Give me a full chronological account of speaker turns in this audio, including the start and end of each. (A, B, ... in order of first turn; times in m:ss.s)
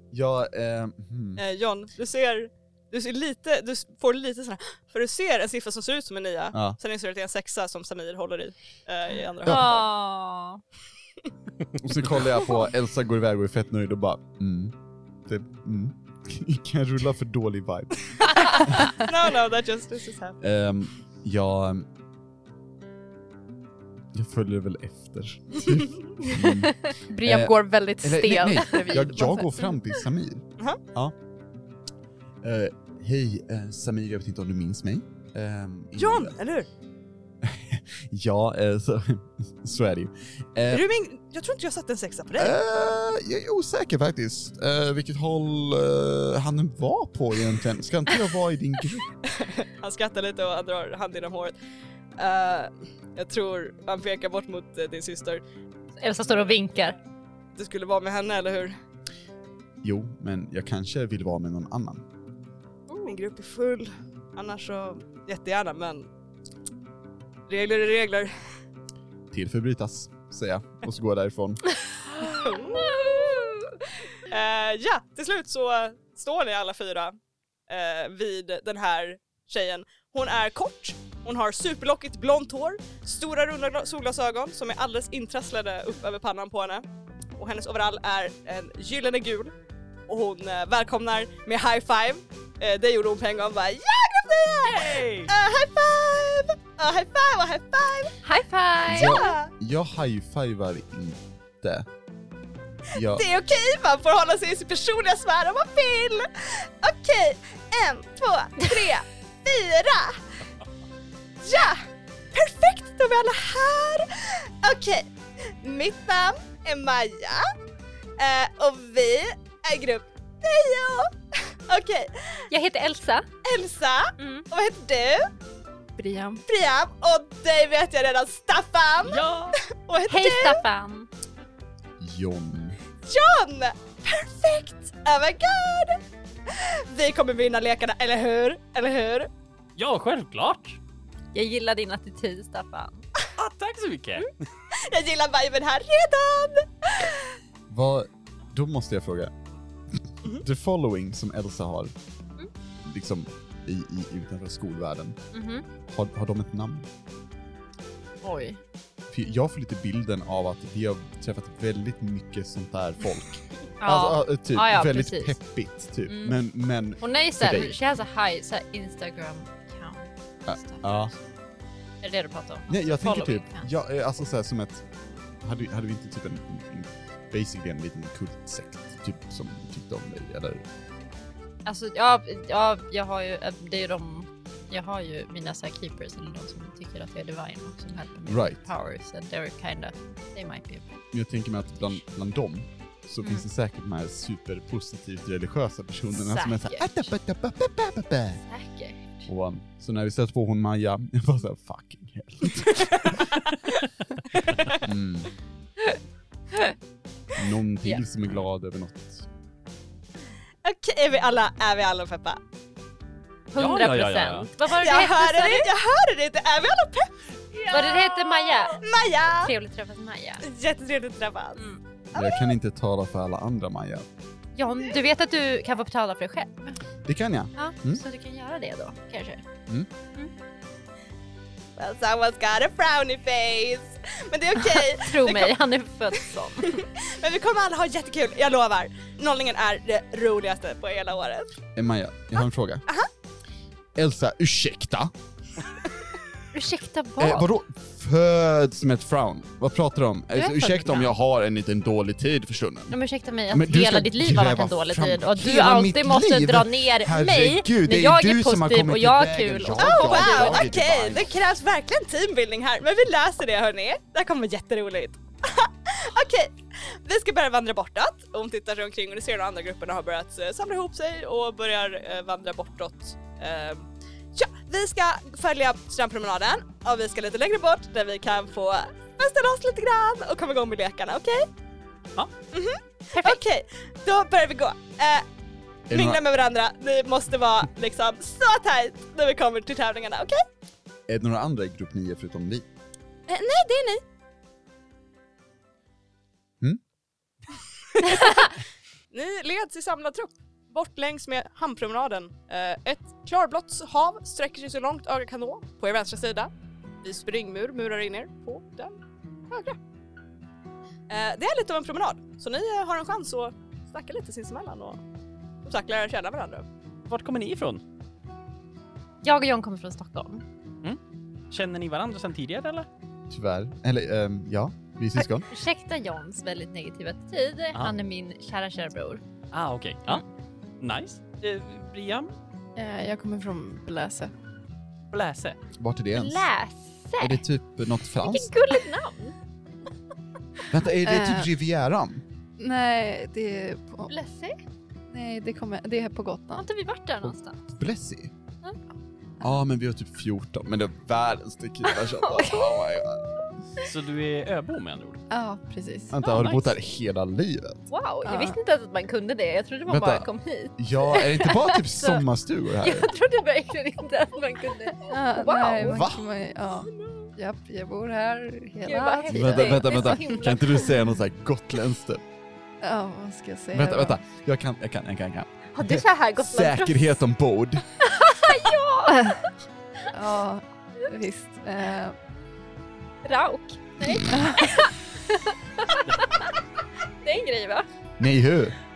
0:00.1-0:01.4 A
0:01.4-0:09.9 B
0:06.5-0:06.8 A
0:09.4-0:10.6 C
0:11.8-0:18.8 A
0:18.2-0:20.4 B
0:20.4-0:21.9 A
0:24.1-0:31.1 A
0:27.1-0:29.8 D
0:32.4-0:36.3 A
0:36.0-0:36.7 B
0:37.4-0:40.8 A
0:40.7-0:42.6 B
0:42.4-0:49.1 A
0:49.3-0:51.5 B
0:52.2-0:55.4 B
0:56.0-0:57.0 C
0:57.5-0:58.8 B
0:59.8-1:02.0 A
1:03.0-1:06.1 B
1:07.5-1:08.3 B
1:09.3-1:11.6 A
1:12.3-1:13.5 B
1:12.6-1:13.7 C
1:14.2-1:17.2 B
1:17.7-1:26.8 B
1:27.4-1:29.5 B
1:30.1-1:38.2 B
1:34.6-1:35.3 E
1:38.2-1:39.3 C
1:38.8-1:41.9 A
1:39.0-1:39.5 B
1:42.9-1:43.2 A
1:43.0-1:50.2 B
1:51.4-1:57.5 B
1:58.2-2:01.2 B
2:01.7-2:02.4 B
2:02.5-2:03.3 C
2:03.4-2:05.3 B
2:04.2-2:04.4 C
2:06.0-2:06.4 D
2:06.4-2:09.2 B
2:09.0-2:09.6 E
2:09.8-2:10.6 B
2:10.1-2:11.1 C
2:12.0-2:12.8 A
2:13.0-2:19.3 B
2:19.8-2:20.8 E
2:21.3-2:23.0 C
2:23.4-2:24.4 E
2:24.7-2:27.3 B
2:27.7-2:29.3 A
2:30.2-2:31.9 A
2:32.8-2:35.2 A
2:35.3-2:35.6 C
2:35.9-2:36.9 A
2:38.2-2:38.6 C
2:39.1-2:47.8 A
2:43.8-2:45.4 C
2:46.1-2:46.4 C
2:47.0-2:51.1 C
2:50.5-2:51.1 A
2:52.0-2:53.7 C
2:52.7-2:54.8 A
2:55.4-3:00.6 A
3:01.6-3:11.0 C
3:08.3-3:08.6 A
3:11.1-3:18.4 A
3:16.1-3:17.1 C
3:18.5-3:19.3 C
3:19.3-3:23.3 A
3:22.9-3:23.2 B
3:24.7-3:25.3 A
3:27.3-3:29.3 A
3:30.6-3:32.4 B
3:33.5-3:35.7 C
3:33.6-3:34.5 E
3:34.6-3:39.5 B
3:37.7-3:38.8 C
3:39.4-3:40.4 C
3:40.4-3:41.6 B
3:42.1-3:42.5 B
3:42.1-3:44.1 A
3:44.5-3:46.8 C
3:47.0-3:48.0 A
3:47.6-3:49.4 C
3:51.8-3:55.6 B
3:54.6-3:56.8 C
3:56.2-4:01.5 B
4:01.7-4:02.8 A
4:04.0-4:05.1 A
4:06.5-4:07.5 C
4:07.2-4:13.0 A
4:10.3-4:11.1 C
4:12.9-4:20.7 C
4:13.5-4:21.3 A
4:19.7-4:41.5 B
4:42.5-4:45.2 B
4:43.1-4:43.4 C
4:45.9-4:46.2 A
4:45.9-4:50.4 B
4:51.1-4:52.6 A
4:53.3-4:54.0 B
4:57.9-4:58.4 B
4:59.1-5:06.5 B
5:07.0-5:09.0 B
5:09.5-5:09.8 B
5:11.1-5:15.0 B
5:15.6-5:16.6 B
5:17.1-5:17.8 E
5:19.2-5:20.4 C
5:21.5-5:22.9 E
5:23.3-5:25.5 A
5:25.5-5:29.2 C
5:29.5-5:30.2 E
5:30.8-5:32.3 E
5:32.8-5:34.3 D
5:35.1-5:35.6 E
5:35.8-5:36.5 A
5:36.1-5:37.4 C
5:37.2-5:38.5 A
5:38.2-5:39.4 C
5:40.7-5:42.2 A
5:41.0-5:41.5 D
5:42.6-5:44.1 D
5:44.1-5:44.6 C
5:45.1-5:46.6 D
5:46.6-5:47.6 C
5:47.7-5:48.3 A
5:49.4-5:53.4 A
5:51.9-5:52.8 C
5:53.8-5:55.2 E
5:55.3-5:56.3 D
5:56.1-5:57.8 A
5:56.2-5:56.7 C
5:57.9-6:02.2 C
5:58.2-5:58.6 D
5:59.8-6:03.1 A
6:02.8-6:06.1 C
6:05.0-6:10.4 D
6:05.8-6:06.2 A
6:08.8-6:10.9 C
6:09.3-6:12.2 A
6:12.8-6:14.2 D
6:13.7-6:17.8 A
6:15.7-6:17.1 C
6:18.0-6:19.5 C
6:20.1-6:22.2 D
6:23.2-6:26.6 C
6:24.3-6:24.8 D
6:27.2-6:27.9 C
6:28.2-6:28.8 A